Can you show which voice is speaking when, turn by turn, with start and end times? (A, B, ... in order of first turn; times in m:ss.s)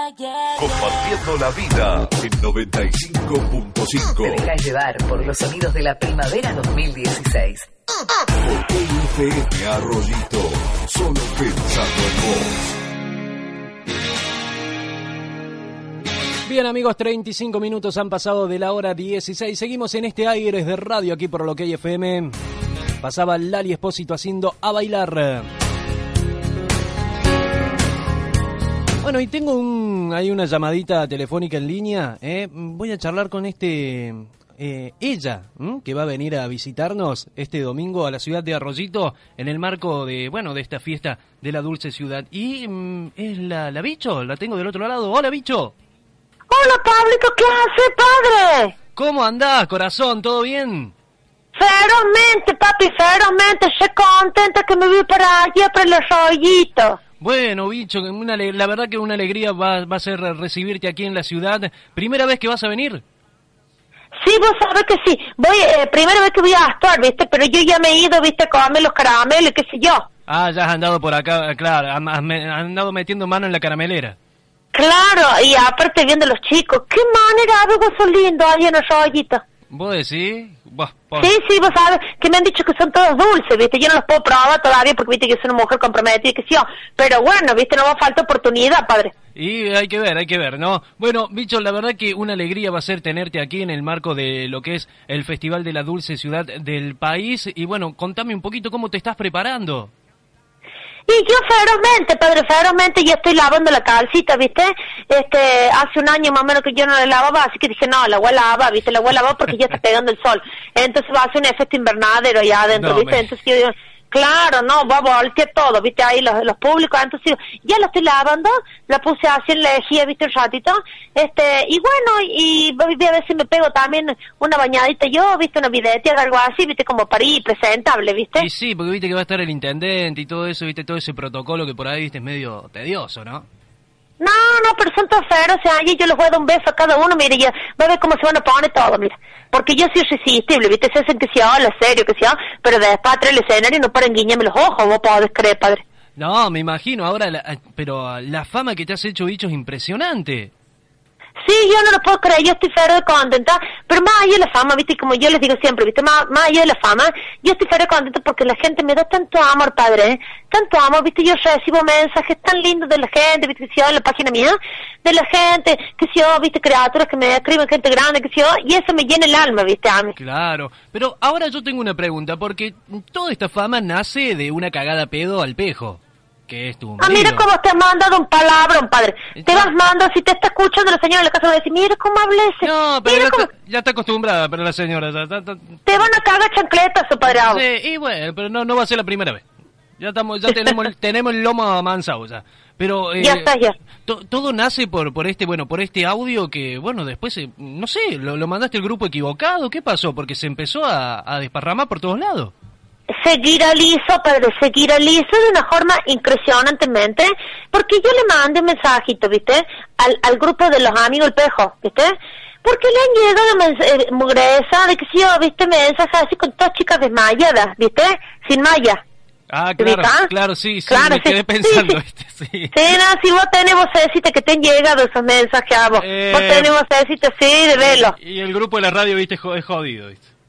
0:00.6-0:04.4 A
0:04.2-0:07.7 B
0:08.4-0:12.5 A
0:16.4-0:22.4 C
0:23.0-0:25.5 C
0:29.0-0:45.7 C
0:46.5-0:48.7 D
0:48.9-0:50.9 C
0:51.5-0:57.0 D
0:57.2-1:03.0 C
1:04.2-1:10.1 D
1:10.3-1:14.2 C
1:14.7-1:19.4 D
1:19.7-1:21.3 C
1:21.2-1:29.1 D
1:29.3-1:39.9 C
1:41.1-2:08.5 D
1:52.7-1:53.3 C
2:08.4-2:13.5 C
2:14.2-2:25.8 D
2:26.2-2:30.5 C
2:31.4-2:50.1 D
2:50.2-2:57.5 C
2:57.0-3:03.5 D
2:59.3-2:59.8 C
3:02.6-3:06.1 C
3:05.9-3:07.6 D
3:07.2-3:09.4 C
3:10.0-3:22.5 C
3:13.2-3:13.8 D
3:23.2-3:39.0 D
3:39.5-3:42.8 C
3:39.8-3:40.3 D
3:40.9-3:42.0 D
3:42.7-3:48.1 D
3:46.0-3:46.7 C
3:47.8-3:50.2 C